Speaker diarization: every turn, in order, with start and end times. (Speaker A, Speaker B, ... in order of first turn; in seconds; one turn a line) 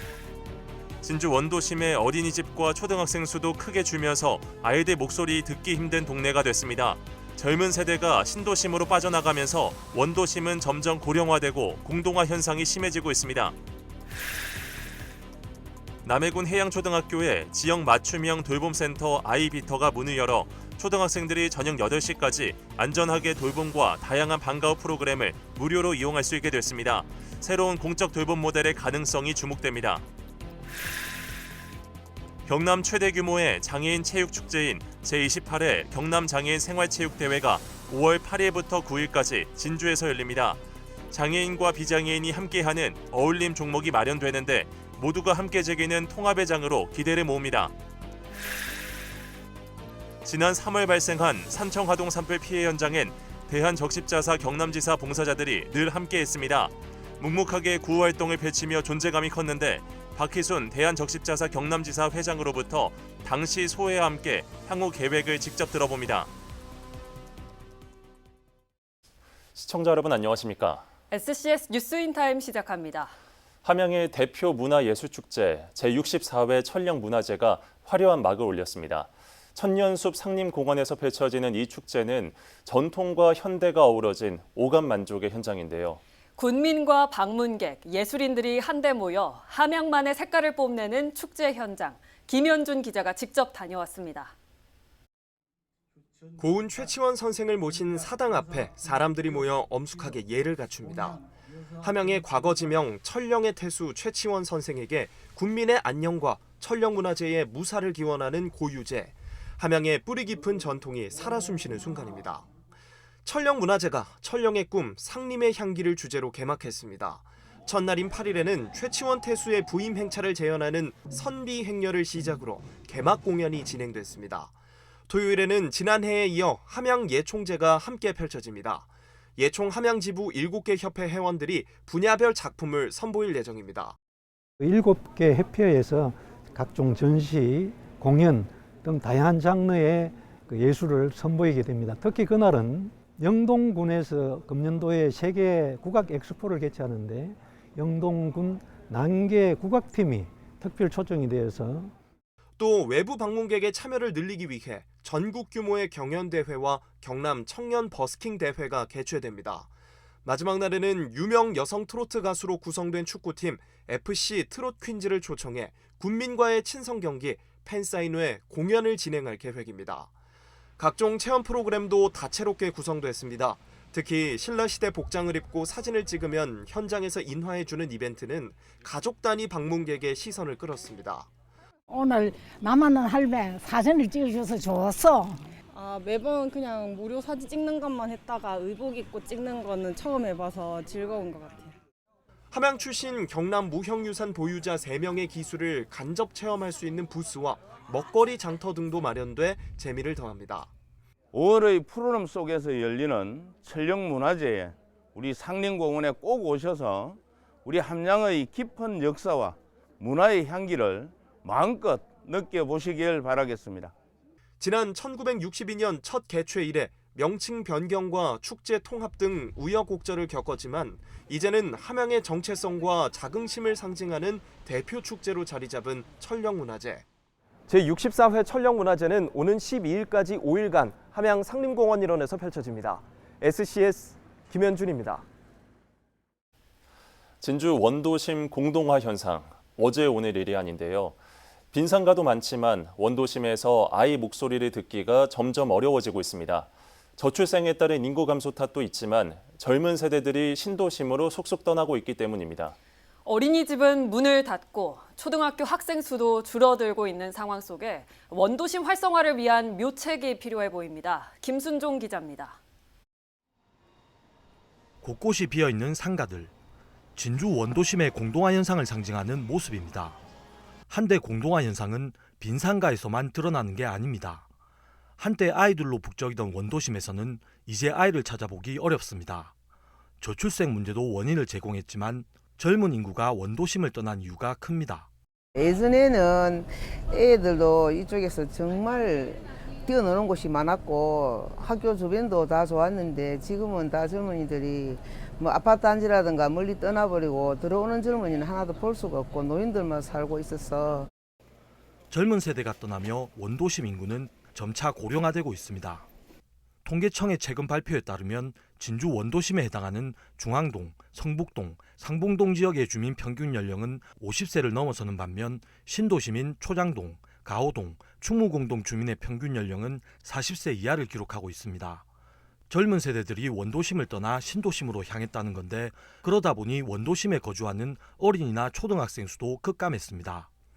Speaker A: 1.0-13.6
Speaker A: 16.0-30.1
Speaker A: 32.5-40.6
Speaker A: 41.1-47.7
Speaker A: 50.2-66.3
Speaker A: 69.5-70.9
Speaker B: 71.1-73.2
Speaker A: 73.6-86.0
Speaker B: 86.4-94.3
Speaker C: 96.4-101.2
Speaker C: 101.8-112.5
Speaker C: 113.2-124.5
Speaker C: 125.1-134.0
Speaker D: 134.6-151.9
Speaker C: 152.6-159.7
Speaker C: 160.2-170.1
Speaker C: 170.8-181.3
Speaker E: 181.9-185.4
Speaker F: 185.7-191.8
Speaker C: 192.5-200.7
Speaker G: 201.3-213.9
Speaker C: 214.6-227.1
Speaker C: 227.7-235.3
Speaker A: 237.4-241.2
Speaker A: 241.7-252.8
Speaker B: 253.2-262.6
Speaker H: 265.0-266.5
Speaker H: 267.1-270.2
Speaker H: 270.9-274.5
Speaker H: 275.2-279.5
Speaker H: 280.2-285.1
Speaker I: 285.6-301.1
Speaker H: 302.1-306.1
Speaker H: 306.9-322.1
Speaker H: 322.7-330.5